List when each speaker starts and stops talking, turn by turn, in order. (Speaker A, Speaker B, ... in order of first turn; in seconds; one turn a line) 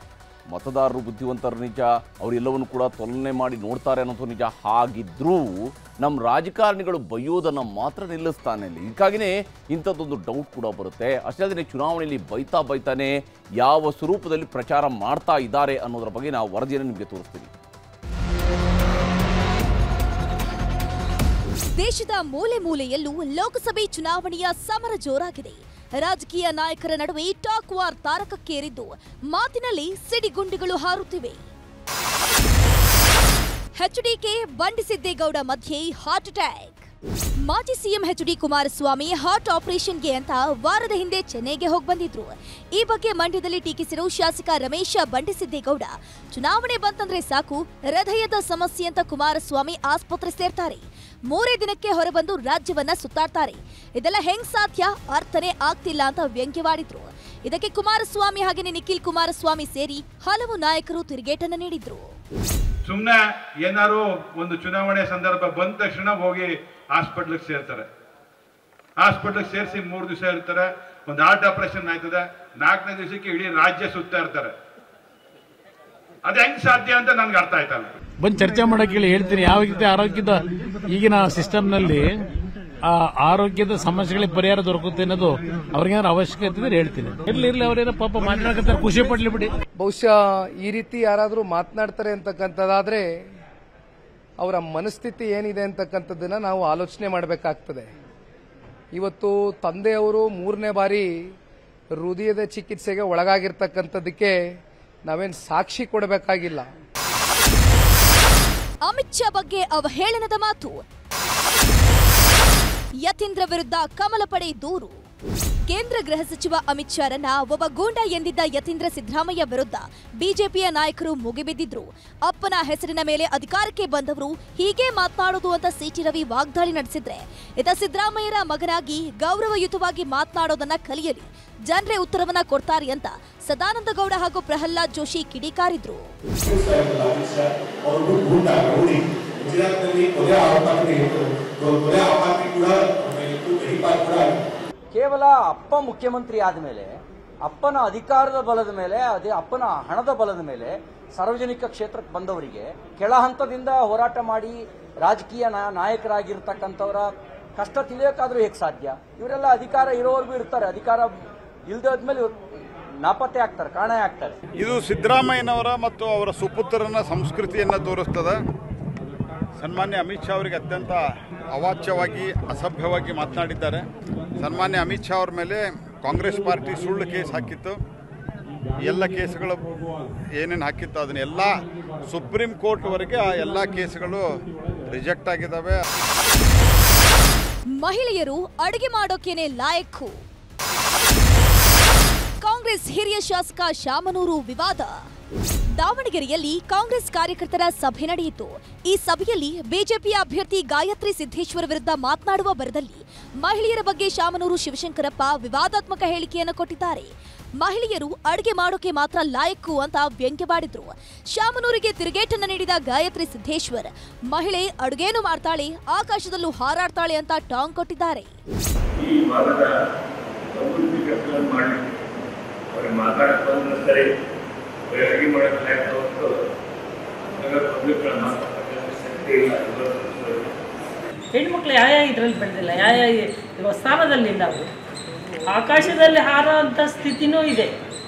Speaker A: 0.5-17.5
Speaker B: 21.8-31.4
Speaker B: 33.8-36.9
Speaker B: 37.5-62.1
Speaker C: 62.9-67.9
Speaker C: 69.0-74.5
Speaker C: 76.3-77.9
Speaker D: 78.2-82.2
Speaker D: 82.9-89.5
Speaker E: 89.8-93.1
Speaker E: 94.4-97.9
Speaker E: 98.9-101.1
Speaker E: 101.9-104.4
Speaker E: 105.1-106.7
Speaker B: 108.9-110.8
Speaker B: 113.0-115.0
Speaker B: 115.7-136.1
Speaker F: 136.5-144.4
Speaker G: 144.9-146.9
Speaker G: 147.5-161.1
Speaker G: 161.7-162.3
Speaker G: 163.0-164.3
Speaker H: 164.6-168.4
Speaker H: 169.6-173.9
Speaker H: 174.4-177.8
Speaker H: 178.8-179.8
Speaker H: 180.3-185.8
Speaker B: 187.8-190.2
Speaker B: 192.4-194.9
Speaker B: 195.8-218.3
Speaker I: 219.0-219.7
Speaker I: 220.5-222.0
Speaker I: 222.7-224.1
Speaker I: 224.9-226.4
Speaker I: 227.4-230.5
Speaker J: 231.3-234.7
Speaker J: 235.5-237.7